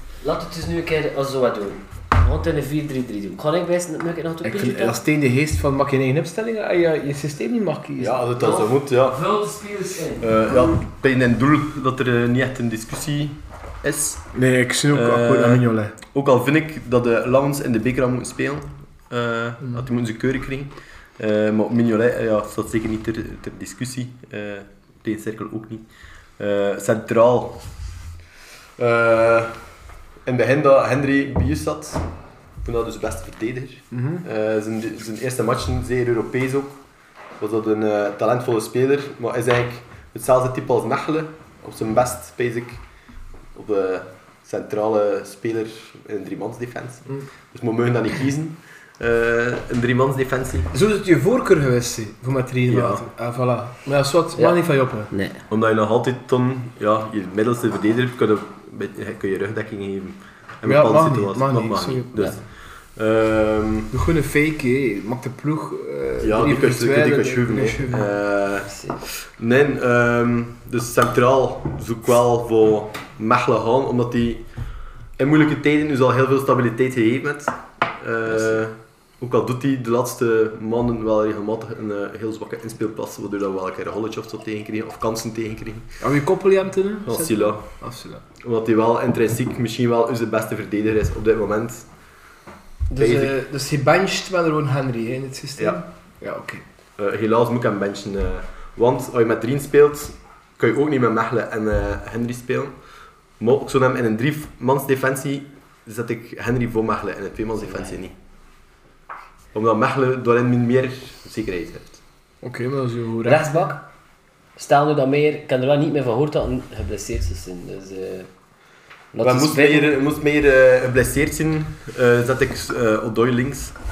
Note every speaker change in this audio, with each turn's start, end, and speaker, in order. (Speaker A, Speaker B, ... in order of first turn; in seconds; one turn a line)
Speaker A: 0.2-5.0
Speaker B: 4.4-8.2
Speaker C: 8.0-9.2
Speaker A: 8.4-10.7
Speaker C: 10.2-14.3
Speaker B: 14.3-15.9
Speaker C: 14.9-25.9
Speaker C: 26.4-27.6
Speaker C: 28.8-29.6
Speaker C: 30.2-32.0
Speaker C: 32.6-36.8
Speaker B: 33.9-34.2
Speaker C: 37.4-42.8
Speaker C: 43.5-50.7
Speaker B: 50.7-55.1
Speaker C: 52.7-53.1
Speaker A: 54.4-55.4
Speaker C: 55.5-63.9
Speaker B: 60.6-62.1
Speaker B: 63.9-68.1
Speaker C: 66.2-74.4
Speaker A: 68.7-69.0
Speaker C: 75.2-86.0
Speaker B: 86.0-88.2
Speaker C: 87.0-87.7
Speaker C: 88.4-91.9
Speaker B: 92.9-96.6
Speaker C: 93.0-93.3
Speaker C: 97.0-102.7
Speaker C: 103.4-108.1
Speaker C: 109.5-112.0
Speaker B: 112.4-113.7
Speaker A: 113.2-113.8
Speaker A: 114.6-118.3
Speaker A: 119.1-120.0
Speaker C: 119.2-123.8